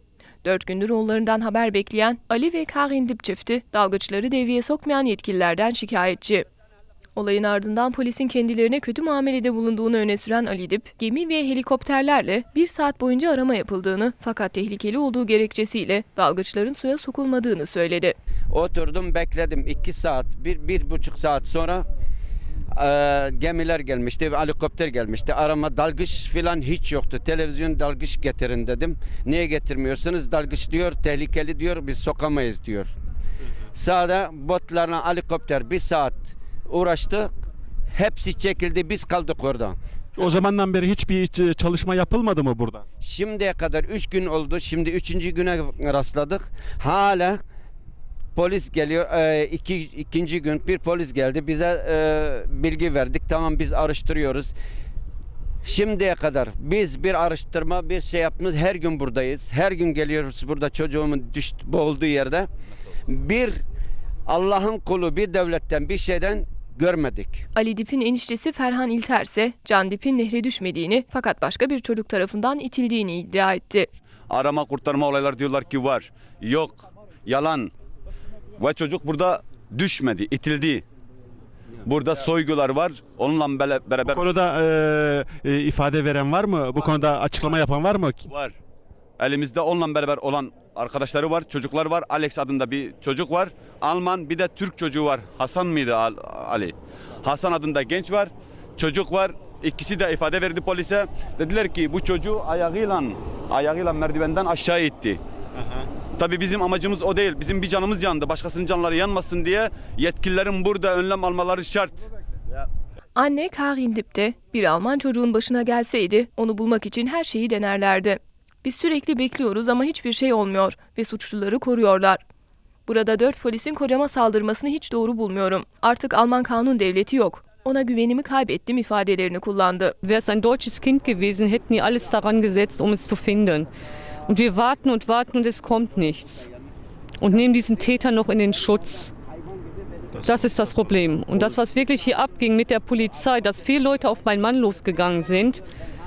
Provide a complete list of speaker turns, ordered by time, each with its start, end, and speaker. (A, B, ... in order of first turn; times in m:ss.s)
0:00.4-0:06.5 A
0:07.2-0:18.2 A
0:18.5-0:21.9 B
0:22.8-0:32.9 B
0:33.7-0:37.3 B
0:37.9-0:39.8 B
0:40.2-0:42.8 C
0:43.0-0:47.4 B
0:48.4-0:54.5 B
0:55.6-1:02.5 B
1:03.1-1:03.6 B
1:04.3-1:07.4 B
1:07.6-1:13.9 A
1:14.3-1:16.8 D
1:17.3-1:17.7 D
1:18.6-1:20.8 D
1:21.8-1:24.2 D
1:24.1-1:28.3 C
1:28.3-1:28.6 D
1:29.2-1:45.2 D
1:46.2-1:52.0 D
1:53.2-2:02.2 A
2:02.9-2:10.0 A
2:10.0-2:13.7 E
2:14.3-2:16.5 E
2:17.2-2:19.1 E
2:20.2-2:20.8 C
2:20.2-2:25.6 E